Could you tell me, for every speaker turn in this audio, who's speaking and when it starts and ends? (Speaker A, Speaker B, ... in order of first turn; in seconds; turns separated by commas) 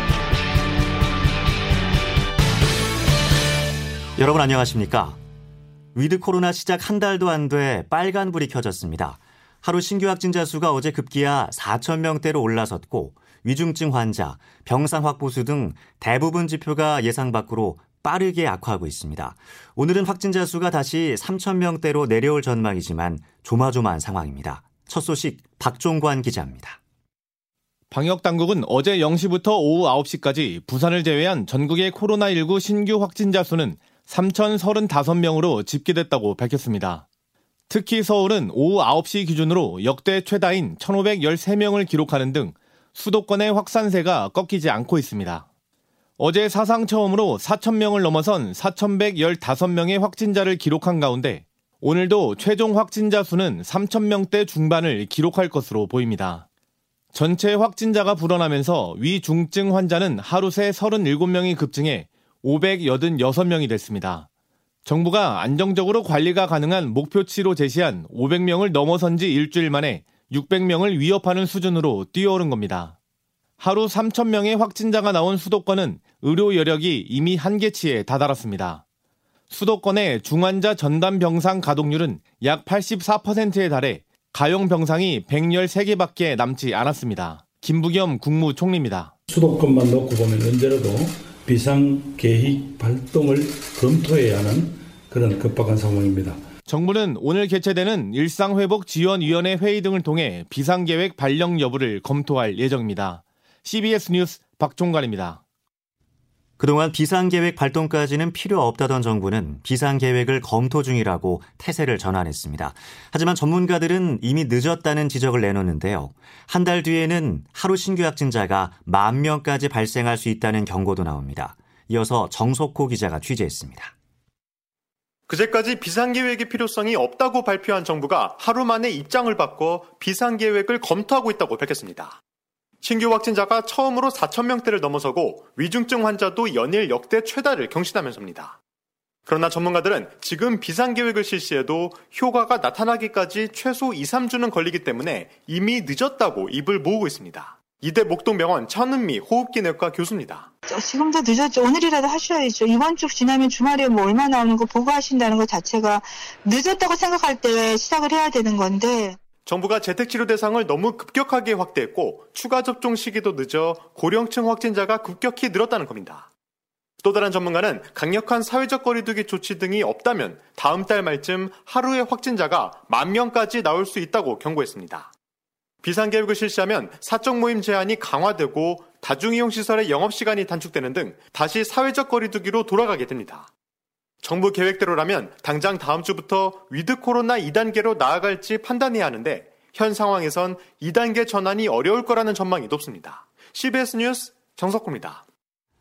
Speaker A: 4.2-5.2, Speaker A: 5.9-26.8, Speaker B: 27.9-37.0, Speaker B: 37.7-45.4, Speaker B: 46.2-56.4, Speaker B: 57.1-64.2, Speaker B: 64.8-72.9, Speaker B: 73.6-78.8, Speaker B: 79.5-89.1, Speaker C: 89.3-96.4, Speaker B: 96.7-105.4, Speaker A: 106.6-123.9, Speaker D: 125.3-132.2, Speaker D: 132.8-138.6, Speaker D: 139.3-150.5, Speaker E: 150.8-159.1, Speaker D: 159.4-166.3, Speaker D: 167.0-175.1, Speaker D: 175.8-183.5, Speaker D: 184.2-195.2